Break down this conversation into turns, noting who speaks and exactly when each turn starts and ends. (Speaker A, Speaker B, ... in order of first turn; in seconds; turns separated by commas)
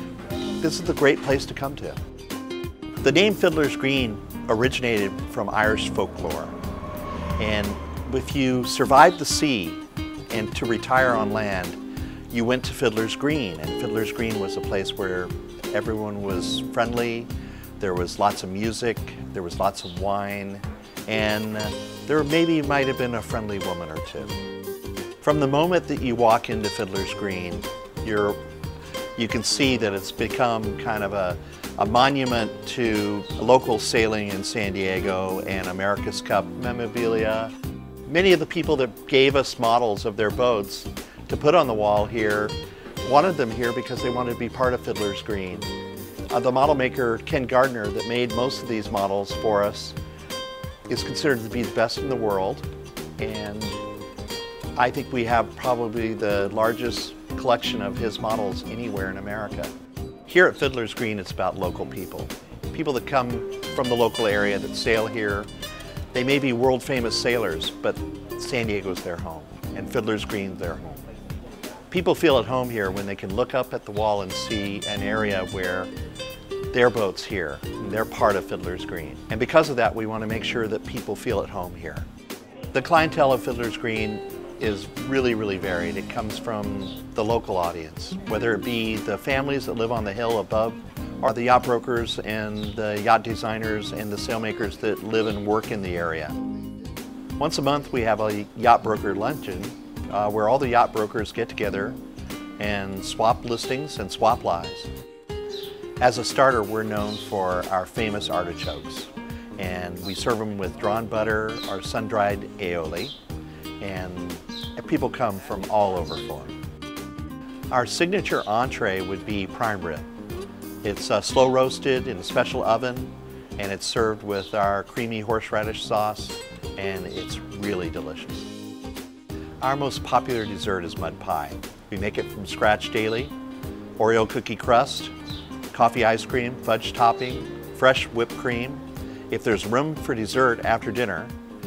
Speaker A: 0.6-2.0, Speaker A: 3.0-6.6, Speaker A: 7.4-11.8, Speaker A: 12.3-24.4, Speaker A: 25.2-28.4, Speaker A: 29.2-37.5, Speaker A: 38.1-45.7, Speaker A: 46.3-50.0, Speaker A: 50.9-52.7, Speaker A: 53.2-53.8, Speaker A: 54.8-59.7, Speaker A: 60.3-65.5, Speaker A: 66.1-71.1, Speaker A: 71.9-75.9, Speaker A: 76.7-82.1, Speaker A: 82.7-96.4, Speaker A: 97.4-102.0, Speaker A: 102.6-104.9, Speaker A: 106.0-113.2, Speaker A: 113.8-116.6, Speaker A: 117.7-120.1, Speaker A: 120.8-128.5, Speaker A: 129.6-133.3, Speaker A: 134.0-135.1, Speaker A: 135.7-141.3